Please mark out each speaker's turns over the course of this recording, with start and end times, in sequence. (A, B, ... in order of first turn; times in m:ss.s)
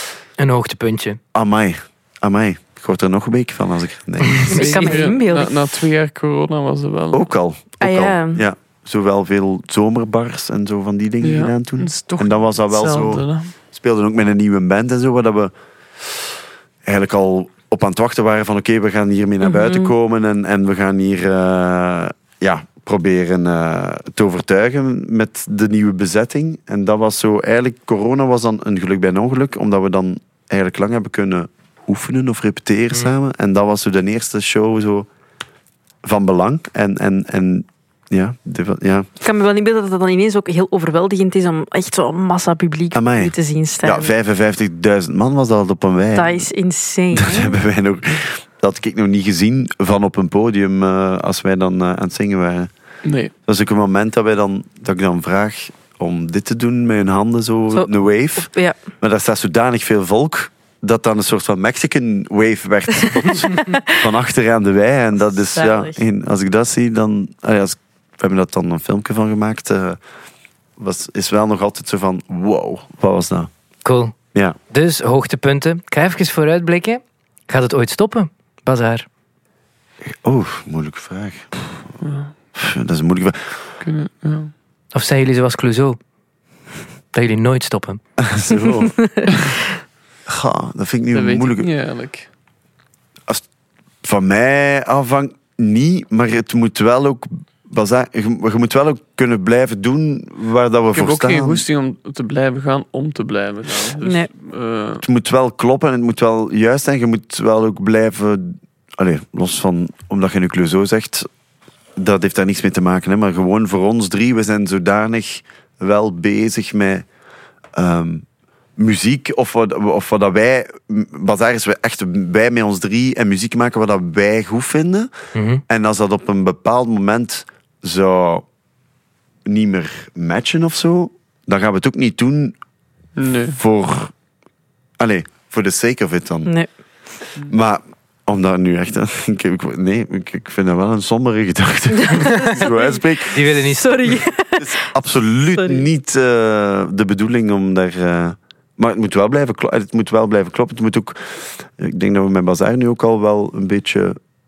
0:00.4-0:01.2 A
0:01.3-0:04.8 B
0:04.2-0:04.6 A
0:04.5-0:05.5 C
0:04.5-0:07.3 D
0:07.1-0:15.5 B
0:07.8-0:08.4 C
0:11.2-0:13.5 D
0:16.8-0:35.1 B
0:19.4-0:19.9 C
0:36.0-0:39.1 B
0:39.2-0:44.1 C
0:42.9-0:46.5 B
0:46.1-0:47.6 C
0:47.1-0:52.7 B
0:53.0-0:53.3 D
0:53.5-0:58.5 B
0:57.7-0:58.8 C
0:59.0-1:10.0 B
1:03.5-1:03.9 C
1:05.5-1:06.0 C
1:10.8-1:13.5 B
1:13.8-1:14.2 A
1:14.7-1:19.0 A
1:20.0-1:21.5 B
1:22.0-1:22.3 D
1:22.5-1:23.6 B
1:23.8-1:24.5 D
1:24.9-1:26.0 A
1:27.1-1:28.0 A
1:28.2-1:29.0 B
1:28.6-1:29.5 C
1:30.2-1:31.7 B
1:31.1-1:32.3 D
1:34.0-1:41.6 B
1:40.9-1:45.0 D
1:44.0-1:44.3 C
1:45.0-1:51.3 B
1:52.0-1:57.0 B
1:57.8-1:58.2 B
1:58.8-2:05.1 B
2:05.4-2:05.6 A
2:05.7-2:08.4 B
2:09.4-2:12.6 B
2:13.2-2:13.6 D
2:13.5-2:14.1 B
2:15.0-2:16.5 B
2:17.4-2:23.5 B
2:21.9-2:23.0 C
2:23.3-2:24.1 A
2:23.7-2:24.7 C
2:24.6-2:34.2 B
2:25.5-2:25.8 C